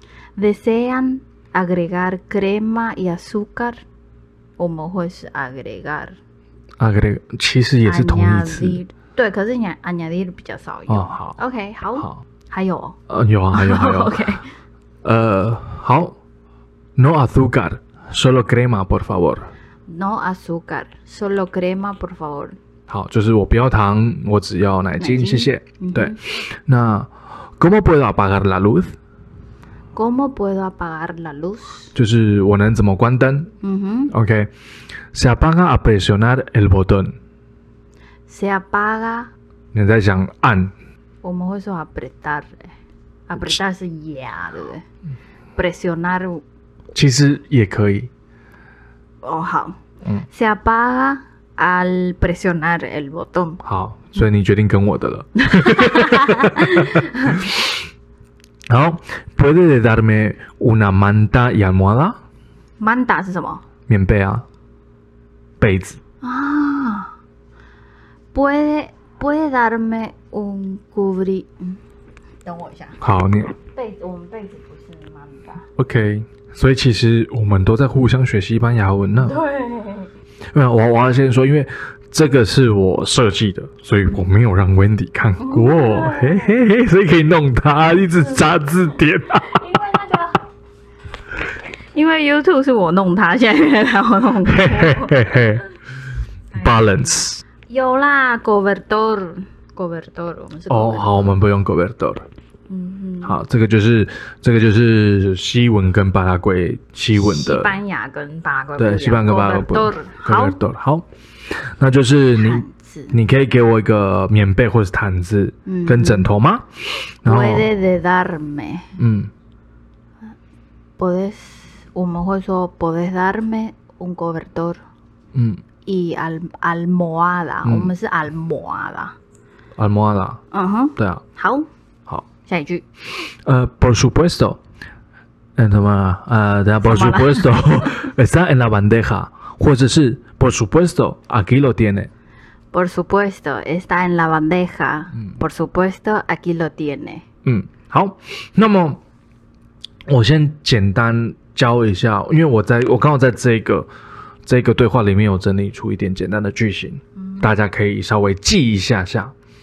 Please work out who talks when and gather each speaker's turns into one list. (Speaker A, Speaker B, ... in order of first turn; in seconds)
Speaker A: 0.4-3.8, 4.6-6.2, 7.8-13.0, 13.5-14.4, 19.9-22.6, 25.0-26.2, 29.9-31.9, 33.6-34.1, 38.3-39.3, 41.2-42.7, 43.3-44.8, 45.6-46.4, 49.2-49.8, 50.3-53.6, 55.5-57.4, 62.8-63.6, 66.2-67.1, 68.3-71.8, 72.5-73.0, 73.7-75.7, 79.2-80.1, 85.4-86.5, 89.5-90.4, 91.9-95.2, 97.7-101.2, 102.7-103.4, 107.2-110.6, 112.4-113.2, 115.7-116.3, 117.2-118.9, 121.0-124.8, 125.9-129.2, 130.5-131.7, 132.5-132.8, 136.8-137.9, 142.7-147.2, 157.2-157.5
Speaker B: 6.8-8.8, 10.9-11.4, 13.1-14.2, 15.0-16.2, 17.0-19.5, 22.9-29.0, 31.9-33.5, 34.1-34.5, 35.1-37.1, 39.7-40.7, 46.9-48.1, 53.6-57.7, 58.7-62.2, 63.9-64.5, 65.6-66.0, 73.0-73.5, 75.8-79.4, 80.5-89.7, 94.5-95.6, 96.5-97.4, 100.7-102.2, 103.2-107.8, 108.8-111.1, 111.8-116.7, 117.2-117.7, 119.0-119.3, 125.3-125.6, 127.6-127.9, 129.8-130.4, 131.0-131.2, 133.4-134.6, 135.6-142.1, 147.4-149.0, 150.1-153.9, 154.5-159.3